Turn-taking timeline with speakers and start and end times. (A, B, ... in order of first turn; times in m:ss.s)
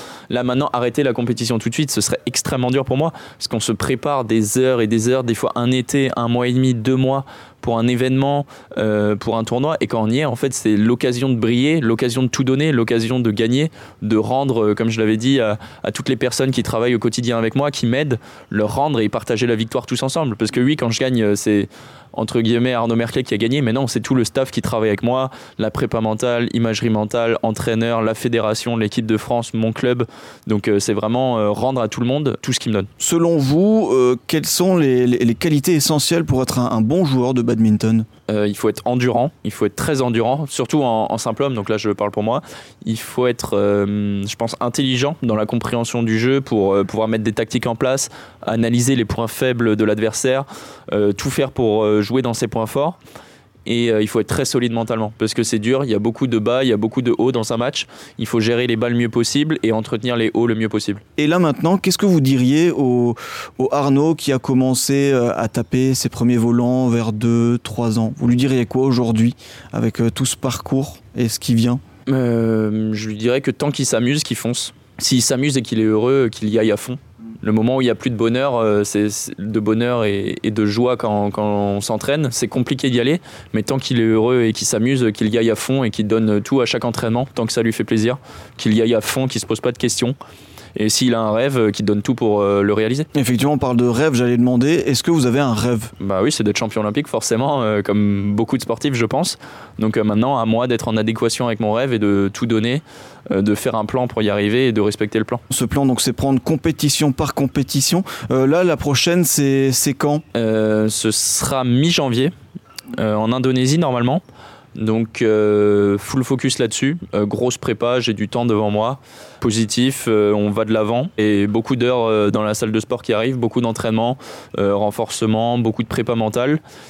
0:00.3-0:32.9 A
0:33.0-0:38.1 B
0:38.3-0:53.0 A
0:53.6-1:01.0 A
1:01.2-1:11.8 B
1:12.1-1:30.2 A
1:30.8-1:33.1 A
1:33.1-1:35.9 B
1:36.0-1:45.4 A
1:45.5-1:50.2 B
1:50.3-1:52.3 A
1:52.9-1:54.2 A
1:54.8-2:06.6 A